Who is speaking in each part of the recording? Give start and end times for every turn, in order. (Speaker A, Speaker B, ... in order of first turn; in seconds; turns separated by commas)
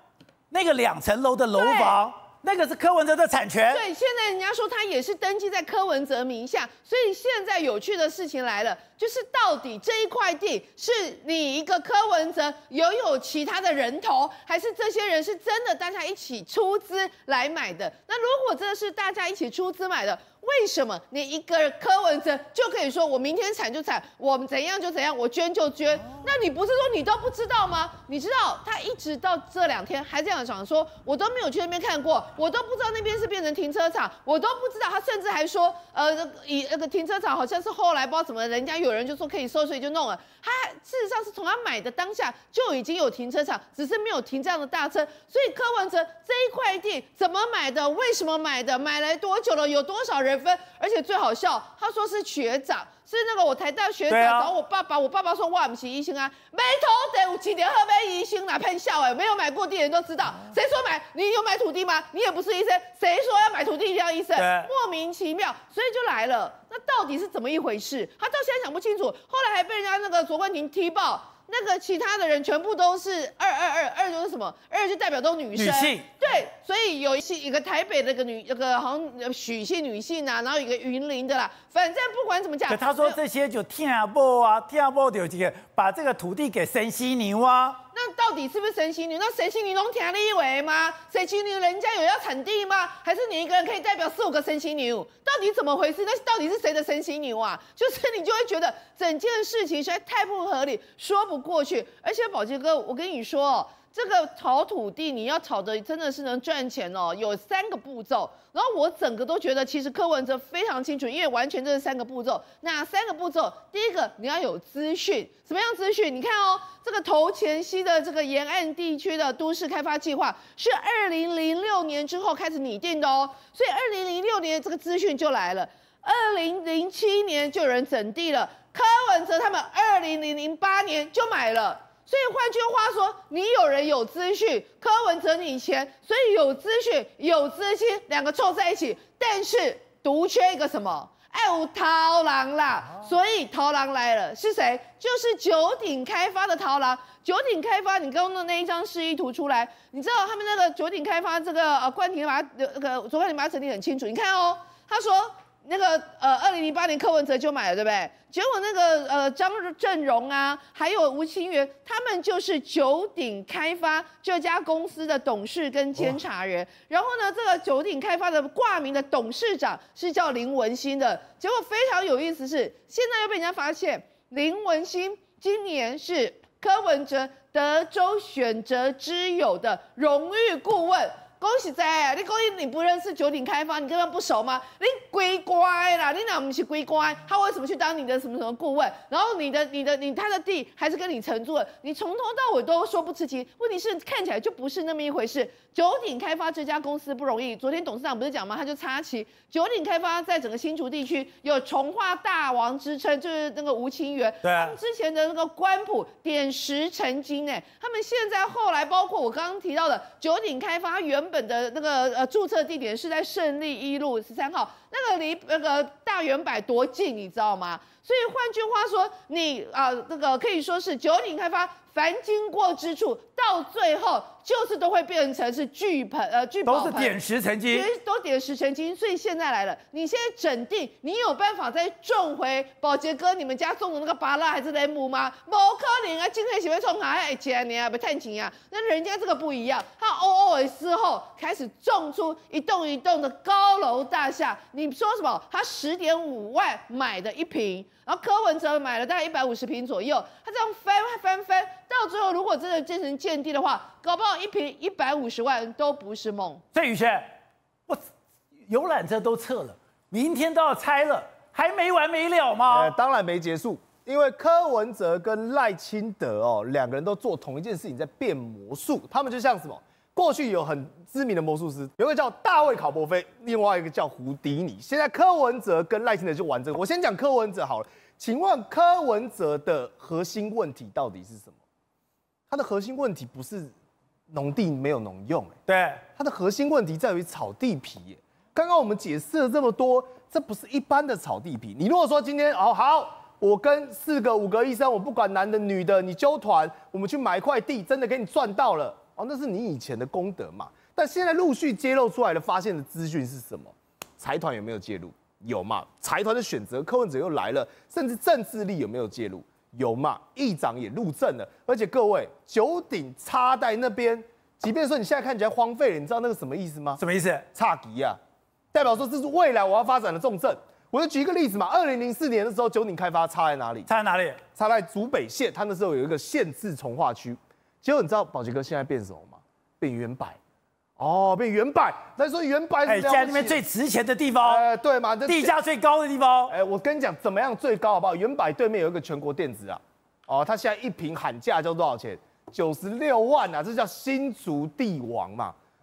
Speaker A: 0.5-3.8, Speaker B: 1.5-2.0, Speaker B: 3.7-83.2, Speaker A: 54.1-54.5, Speaker A: 64.4-64.7, Speaker A: 75.5-76.1, Speaker A: 82.7-87.8, Speaker B: 87.9-256.6, Speaker A: 204.4-204.8, Speaker A: 226.7-227.9, Speaker A: 256.7-257.2, Speaker A: 258.7-262.9, Speaker C: 262.7-281.6, Speaker C: 282.5-283.7, Speaker C: 284.3-285.6, Speaker A: 285.7-286.0, Speaker C: 286.2-317.0, Speaker A: 317.0-317.4, Speaker C: 317.5-318.2, Speaker C: 318.7-323.9, Speaker A: 323.9-324.4, Speaker C: 324.6-330.4, Speaker C: 331.0-333.6, Speaker A: 332.9-334.7, Speaker C: 334.4-335.6, Speaker A: 335.3-336.5, Speaker C: 336.5-345.6